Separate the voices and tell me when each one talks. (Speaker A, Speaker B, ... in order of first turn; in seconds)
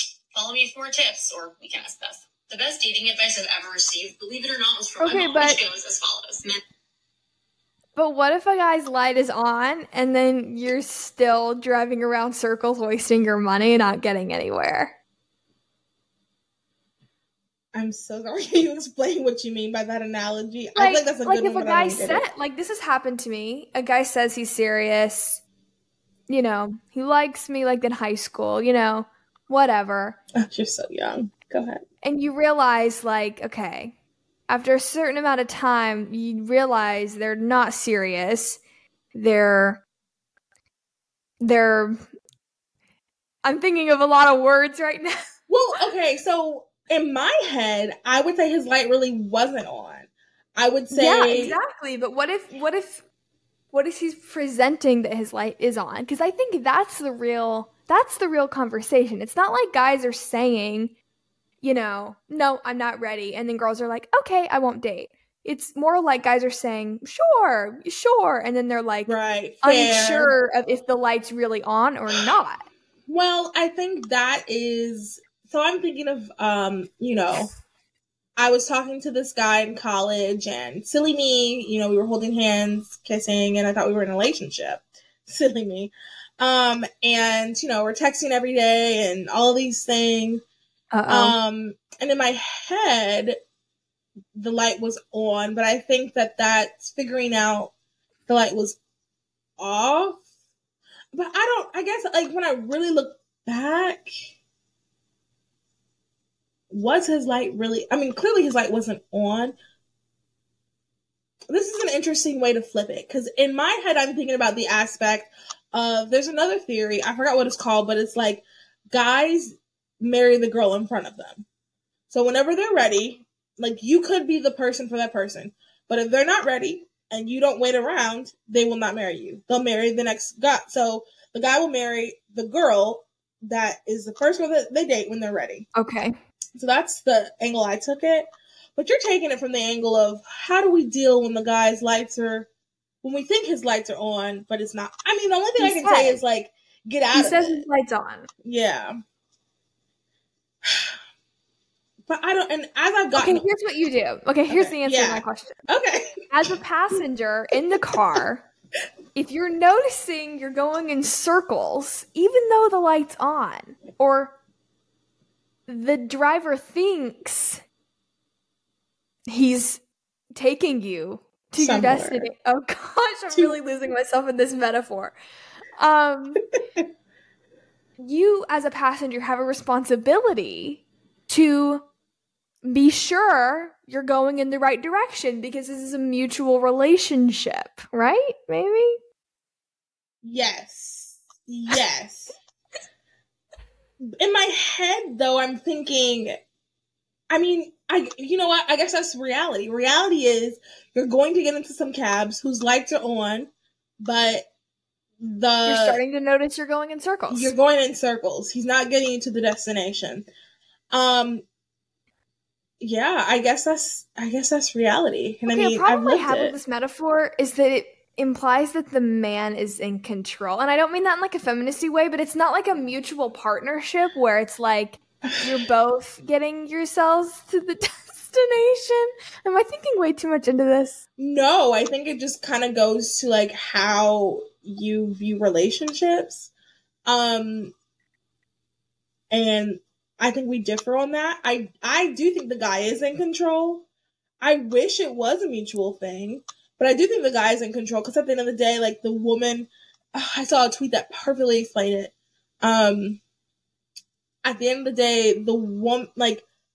Speaker A: 0.3-6.6
Speaker B: 5.0-5.6, 8.0-14.9, 20.7-25.4, 26.3-30.2, 32.0-33.9, 34.5-38.6, 39.1-39.8, 41.4-42.1, 43.4-45.3, 50.9-53.0, 53.7-60.9, 61.6-72.6, 90.9-91.4, 135.7-136.1, 145.6-146.2, 147.1-148.3, 153.2-155.7, 156.3-158.4, 159.1-164.4, 165.7-167.6, 169.3-169.8, 170.3-175.2, 175.8-176.4, 178.0-181.8, 182.6-189.0, 205.7-207.5, 215.5-231.0
Speaker C: 17.7-22.2, 30.3-31.8, 45.5-51.6, 69.1-70.3, 73.1-77.5, 78.4-90.4, 91.1-93.4, 94.3-97.7, 98.3-98.8, 99.6-100.2, 101.1-104.1, 106.7-109.5, 111.5-121.5, 122.1-135.7, 136.6-142.5, 143.0-147.6, 148.4-148.9, 150.6-150.9, 152.1-153.4, 154.5-156.6, 171.6-172.3, 190.2-192.4, 194.0-196.4, 197.3-203.5, 204.0-204.4, 205.2-206.0, 207.3-210.3, 210.9-211.4, 212.8-216.5, 231.2-236.5, 237.1-237.7, 239.3-243.8, 244.4-253.2, 254.4-256.4